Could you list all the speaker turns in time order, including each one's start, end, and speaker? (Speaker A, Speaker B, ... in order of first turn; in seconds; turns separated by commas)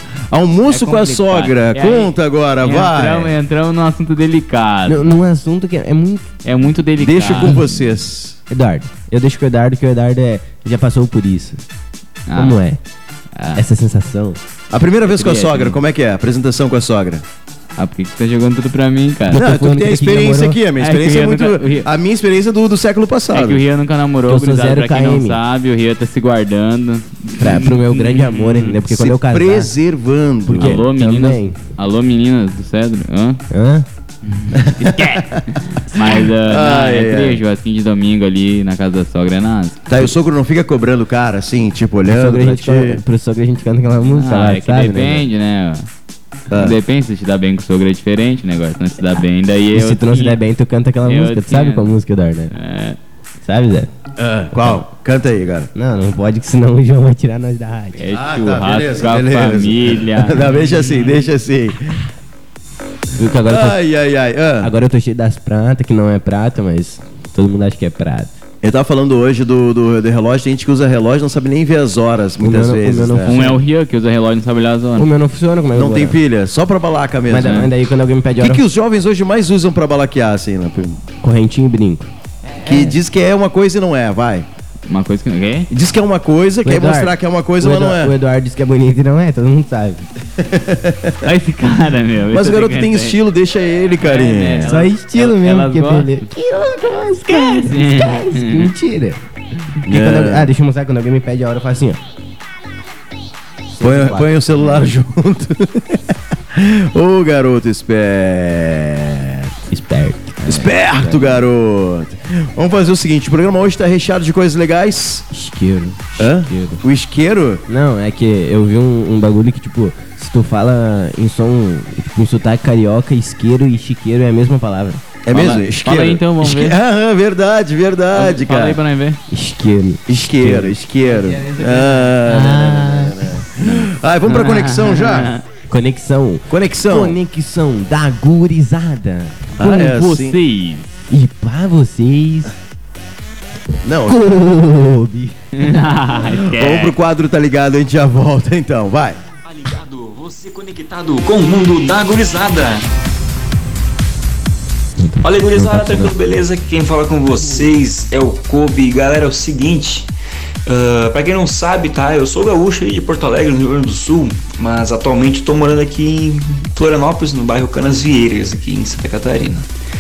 Speaker A: 0.3-3.4, Speaker B: 0.7-5.1, Speaker C: 4.9-6.3, Speaker B: 6.4-7.6, Speaker A: 7.0-8.4, Speaker C: 8.5-11.6, Speaker B: 12.3-12.6, Speaker C: 12.3-12.8, Speaker B: 13.3-13.7, Speaker C: 13.6-14.4, Speaker A: 14.7-17.2, Speaker B: 15.0-15.8, Speaker B: 17.8-19.4, Speaker C: 19.3-20.6, Speaker A: 19.4-23.6, Speaker B: 20.8-21.9, Speaker B: 23.3-28.8, Speaker C: 24.3-25.4, Speaker C: 27.4-29.7, Speaker A: 28.9-30.8, Speaker C: 30.5-31.6, Speaker B: 30.5-33.4, Speaker C: 33.5-33.9, Speaker B: 34.3-40.1, Speaker A: 34.6-37.4, Speaker A: 39.9-43.0, Speaker C: 42.0-45.3, Speaker B: 44.0-45.9, Speaker A: 46.5-46.8, Speaker B: 46.5-50.4, Speaker C: 49.7-52.5, Speaker B: 51.0-52.0, Speaker B: 52.5-53.0, Speaker C: 53.4-53.9, Speaker A: 54.2-55.7, Speaker C: 54.5-54.8, Speaker C: 55.7-58.1, Speaker B: 58.0-60.4, Speaker A: 58.1-62.0, Speaker C: 63.2-63.8, Speaker A: 63.4-64.7, Speaker C: 64.6-68.3, Speaker A: 68.6-73.4, Speaker C: 72.4-73.6, Speaker B: 73.3-75.1, Speaker C: 75.0-76.2, Speaker A: 75.8-77.6, Speaker C: 77.3-78.6, Speaker B: 77.4-77.7, Speaker A: 78.4-81.0, Speaker C: 81.2-83.0, Speaker A: 82.7-84.5, Speaker B: 84.9-85.7, Speaker A: 85.7-88.1, Speaker C: 86.6-90.0, Speaker A: 90.4-91.1, Speaker B: 91.2-93.2, Speaker A: 92.3-94.9, Speaker B: 94.0-96.3, Speaker C: 94.6-99.2, Speaker B: 97.3-98.7, Speaker C: 99.8-102.0, Speaker A: 99.9-100.5, Speaker C: 103.8-104.9, Speaker A: 103.8-106.0, Speaker A: 106.5-109.5, Speaker C: 109.7-111.5, Speaker A: 110.5-115.3, Speaker C: 115.3-116.8, Speaker A: 116.2-117.6, Speaker C: 117.7-125.0, Speaker A: 125.2-128.8, Speaker B: 125.3-126.8, Speaker B: 128.1-129.2, Speaker C: 129.3-133.5, Speaker A: 130.1-135.3, Speaker B: 134.3-135.4, Speaker C: 135.7-139.4, Speaker A: 136.5-137.2, Speaker B: 139.6-140.9, Speaker A: 139.6-140.4, Speaker C: 141.1-142.5, Speaker A: 143.8-144.2, Speaker C: 144.0-146.1, Speaker B: 145.6-147.0, Speaker A: 146.2-149.2, Speaker D: 149.5-152.9, Speaker C: 155.0-156.2, Speaker D: 155.2-160.1, Speaker D: 160.7-169.7